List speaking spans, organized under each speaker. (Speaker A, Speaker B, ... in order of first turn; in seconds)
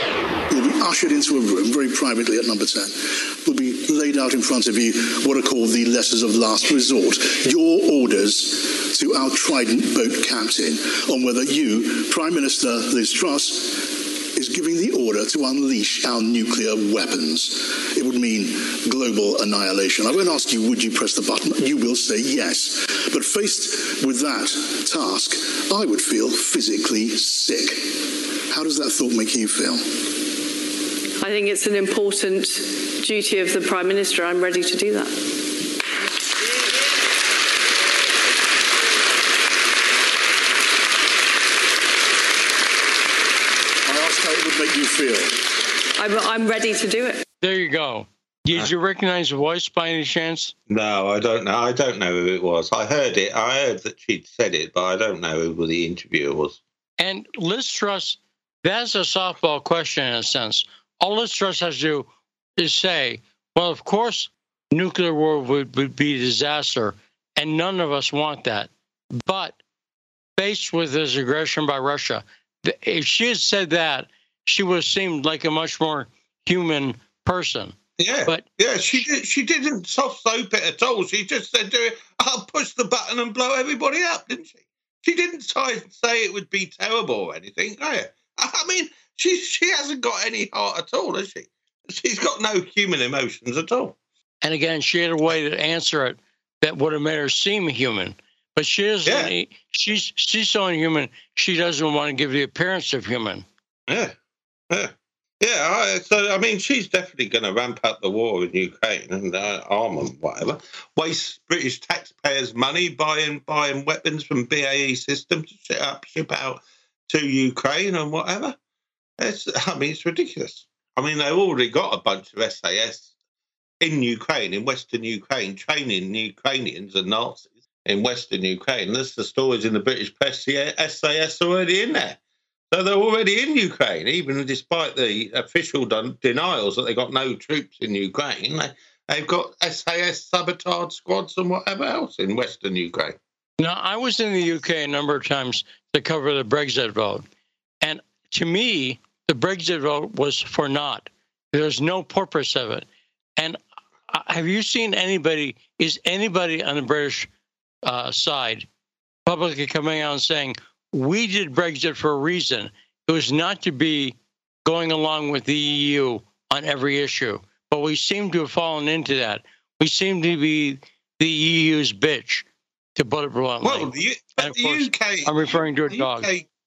Speaker A: 0.5-30.2, 43.9-45.5
Speaker B: 31.2-35.5, 46.0-47.2
Speaker C: 47.4-50.5, 57.0-62.1, 62.6-69.6, 70.4-78.5, 94.4-103.5, 143.6-147.3, 147.8-152.9, 153.4-157.3, 157.8-158.7, 159.3-172.4, 173.0-176.3
Speaker D: 50.7-56.6, 78.0-94.0, 99.0-99.3, 103.9-104.2, 104.7-118.6, 119.2-123.1, 123.8-132.2, 132.7-143.2, 173.6-176.5